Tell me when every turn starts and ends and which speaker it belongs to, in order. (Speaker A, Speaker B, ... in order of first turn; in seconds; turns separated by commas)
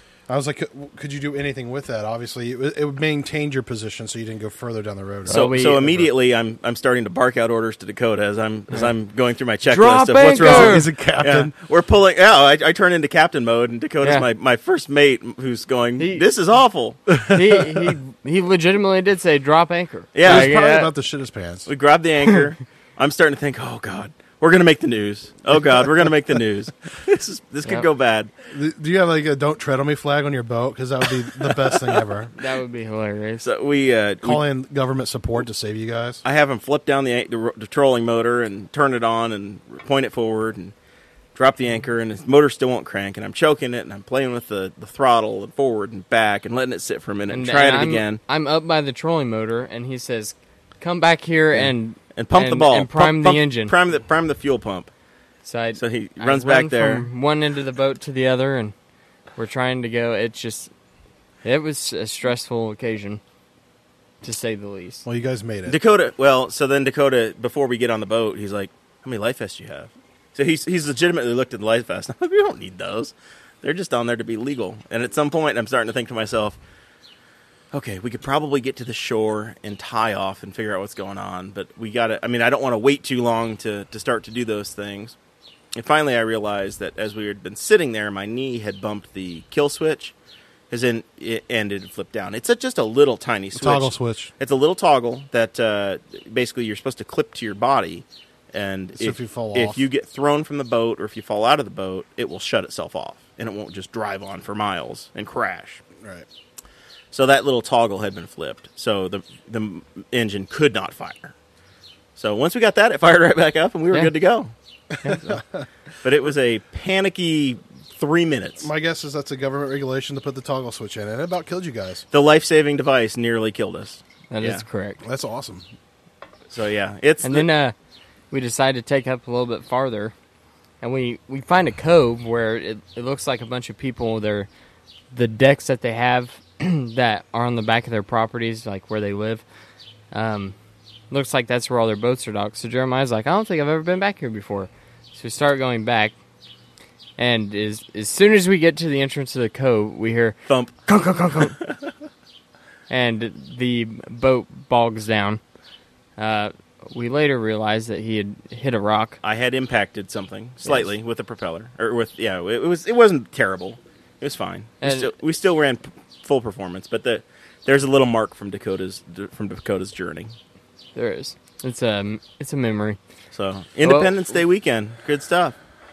Speaker A: 0.3-6.1, Speaker B: 5.3-5.8, Speaker C: 5.3-17.0, Speaker B: 9.7-10.9, Speaker A: 10.1-11.6, Speaker B: 16.0-16.2, Speaker A: 17.2-17.4, Speaker B: 17.3-20.9, Speaker C: 20.1-20.5, Speaker A: 20.2-21.7, Speaker C: 21.7-28.3, Speaker A: 28.5-32.3, Speaker C: 31.5-32.0, Speaker B: 32.4-33.5, Speaker C: 33.4-34.4, Speaker A: 34.2-36.2, Speaker C: 36.2-40.7, Speaker C: 41.4-48.2, Speaker B: 47.3-53.7, Speaker C: 51.5-54.9, Speaker B: 55.4-58.8, Speaker C: 55.8-57.1, Speaker B: 59.4-60.7, Speaker B: 61.4-63.2, Speaker B: 64.2-65.0, Speaker A: 65.0-65.8, Speaker C: 65.7-76.6, Speaker C: 77.7-85.2, Speaker C: 85.8-90.1, Speaker C: 90.7-105.8, Speaker A: 93.5-94.3, Speaker A: 99.0-99.8, Speaker A: 106.0-106.3, Speaker C: 107.1-111.3, Speaker C: 112.2-114.5, Speaker A: 115.1-115.7, Speaker C: 116.0-118.7, Speaker A: 118.6-122.0, Speaker C: 122.1-124.6, Speaker B: 124.3-125.0, Speaker A: 125.0-125.7, Speaker C: 126.5-127.5, Speaker B: 127.2-127.8, Speaker B: 128.3-130.1, Speaker B: 130.8-134.5, Speaker B: 135.1-139.4, Speaker B: 140.1-140.6, Speaker B: 141.1-146.1, Speaker B: 147.2-151.6, Speaker C: 150.5-150.8, Speaker B: 152.9-155.4, Speaker B: 156.2-159.2, Speaker C: 159.2-170.3, Speaker B: 160.7-160.9, Speaker B: 164.8-165.1, Speaker B: 170.9-173.0, Speaker C: 173.3-175.6, Speaker B: 173.8-174.1